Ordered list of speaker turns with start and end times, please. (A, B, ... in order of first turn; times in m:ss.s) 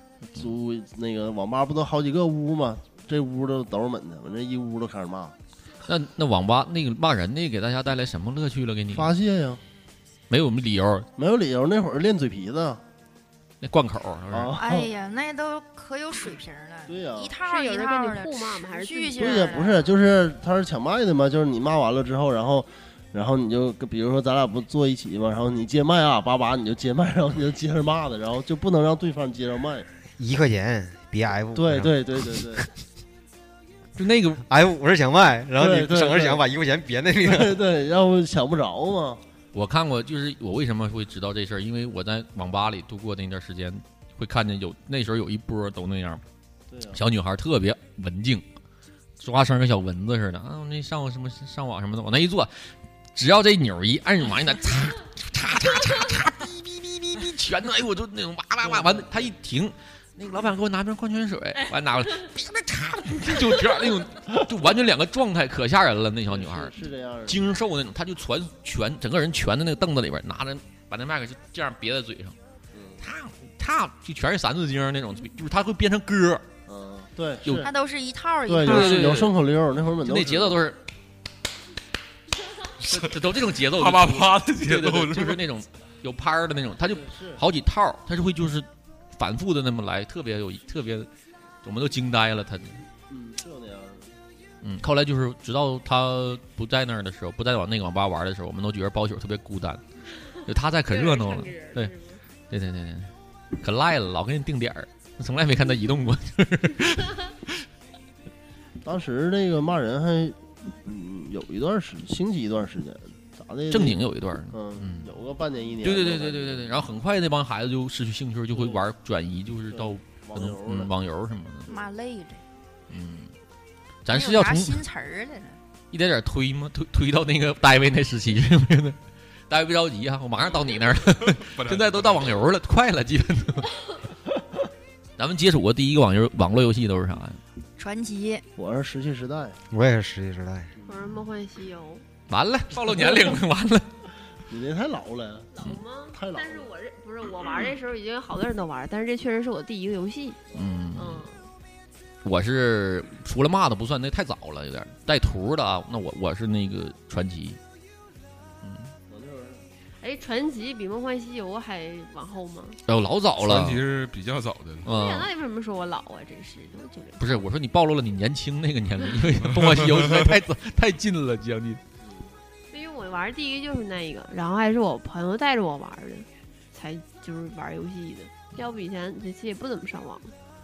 0:00.4-0:05.3 A
0:05.8-0:09.1 B
0:08.9-0:09.6 A
0:10.3-0:11.1 B
0:11.2-0:12.8 A
0:13.6-0:14.6 B
0:14.3-0:14.9 A
0:14.6-0:19.9 C
0:16.9-0:17.3 A
0:17.4-0:19.6 D
0:19.2-0:29.9 A
0:30.2-0:31.9 E
0:31.5-0:32.6 A
0:34.0-0:34.4 B
0:34.5-0:37.6 E
0:35.6-0:36.4 A
0:37.2-0:39.2 A
0:39.5-0:46.2 B
0:46.7-0:47.0 A
0:46.9-0:48.4 B
0:49.2-1:06.7 B
0:58.6-0:59.1 A
1:06.3-1:07.5 A
1:07.3-1:12.4 B
1:12.7-1:13.0 A
1:13.0-1:16.4 B
1:16.7-1:17.7 A
1:17.6-1:18.9 C
1:18.5-1:20.6 A
1:18.6-1:19.3 B
1:20.0-1:20.8 B
1:22.8-1:31.1 B
1:23.7-1:25.4 F
1:26.9-1:27.4 A
1:31.6-1:32.8 B
1:33.1-1:34.1 A
1:34.6-1:39.8 B
1:40.4-1:41.9 B
1:40.9-1:42.2 D
1:42.5-1:47.5 B
1:48.8-1:54.0 A
1:53.7-1:55.1 B
1:54.5-1:56.8 A
1:55.8-2:01.7 B
1:58.5-1:58.8 A
1:59.7-2:00.9 A
2:01.7-2:02.4 C
2:02.9-2:03.3 B
2:04.0-2:04.8 B
2:04.1-2:05.6 C
2:05.9-2:09.0 B
2:09.5-2:13.8 B
2:11.5-2:12.4 F
2:15.2-2:17.4 B
2:17.8-2:18.4 C
2:18.6-2:19.6 A
2:19.7-2:20.7 E
2:20.8-2:22.0 D
2:22.3-2:23.9 B
2:24.5-2:26.7 A
2:25.5-2:30.4 D
2:30.5-2:31.3 B
2:31.0-2:31.4 D
2:32.2-2:37.6 B
2:38.6-2:38.9 B
2:39.1-2:39.6 A
2:40.0-2:42.8 D
2:42.8-2:43.8 B
2:43.4-2:44.9 F
2:44.8-2:45.3 B
2:44.9-2:47.4 D
2:47.2-2:51.8 B
2:52.0-2:52.3 A
2:52.7-3:00.3 D